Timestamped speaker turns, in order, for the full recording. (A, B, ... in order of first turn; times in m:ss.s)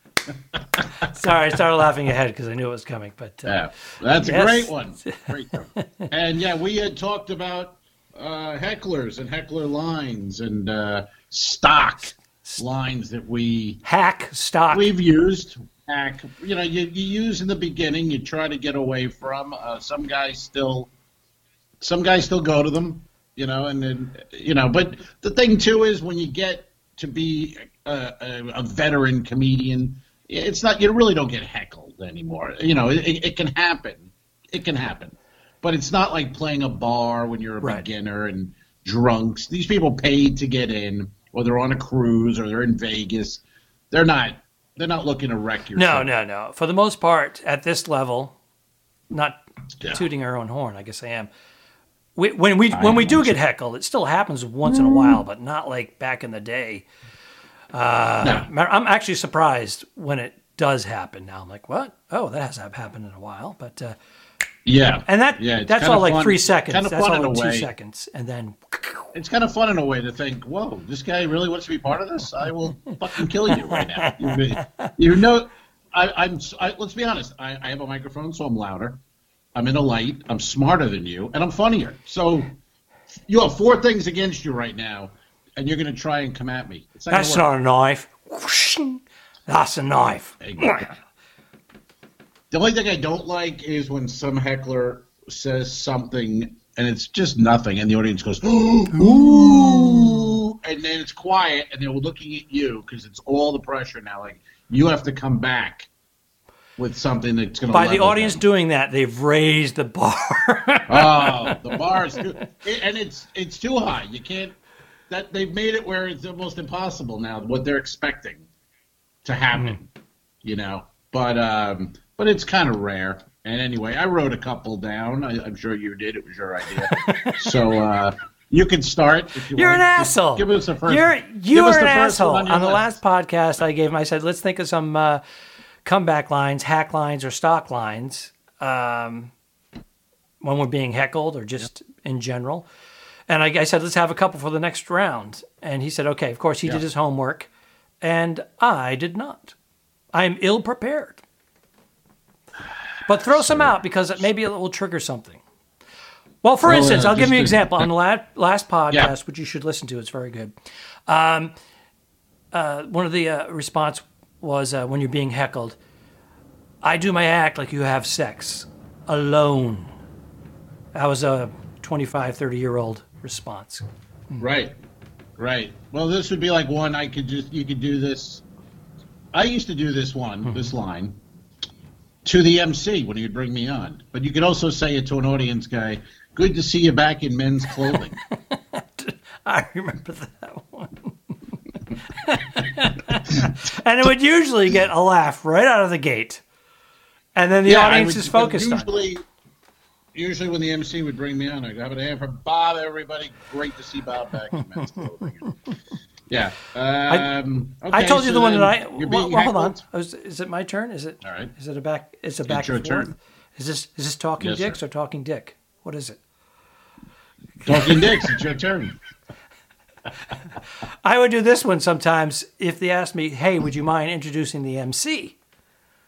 0:00.5-0:01.0 A
0:01.0-0:03.6 B
0:03.4-0:13.8 A
0:04.1-0:05.2 B
0:05.8-0:06.1 B
0:13.8-0:14.9 B
0:14.7-0:20.9 A
0:21.8-0:46.1 A
0:45.7-0:48.4 B
0:49.1-0:49.4 B
0:49.8-0:50.0 A
0:49.9-0:51.3 B
0:52.2-0:56.8 B
0:52.7-0:53.4 A
0:54.6-0:55.2 A
0:57.7-1:04.0 B
0:58.2-0:58.5 A
1:04.6-1:07.7 A
1:05.1-1:09.1 B
1:09.1-1:19.0 A
1:13.5-1:14.9 B
1:19.5-1:22.5 A
1:23.3-1:27.5 A
1:27.1-1:30.9 B
1:30.4-1:30.9 A
1:32.5-1:45.9 A
1:38.9-1:40.2 B
1:46.8-1:48.4 A
1:47.7-1:52.2 B
1:50.9-1:54.6 A
1:55.1-1:58.5 A
1:59.2-1:59.9 A
2:00.4-2:13.0 A
2:06.9-2:07.5 B
2:09.5-2:15.2 B
2:15.8-2:19.3 B
2:20.4-2:22.7 B
2:23.3-2:27.5 B
2:28.0-2:29.5 B
2:30.1-2:31.2 B
2:33.0-2:35.4 B
2:33.2-2:33.8 A
2:36.4-2:40.5 B
2:36.6-2:37.9 A
2:41.1-2:41.5 B
2:42.5-2:45.8 B
2:46.8-2:49.9 B
2:50.9-2:54.4 B
2:54.4-2:54.7 A
2:55.4-2:58.4 A
2:59.3-3:01.2 A
3:02.2-3:08.2 A
3:08.3-3:11.1 B
3:12.1-3:16.4 B
3:17.4-3:18.9 B
3:17.6-3:19.2 A
3:20.1-3:25.6 A
3:26.3-3:29.8 A
3:27.9-3:36.2 B
3:31.2-3:31.5 A
3:32.5-3:33.1 A
3:34.4-3:34.8 A
3:37.6-3:39.0 A
3:37.6-3:38.3 B
3:41.0-3:45.3 B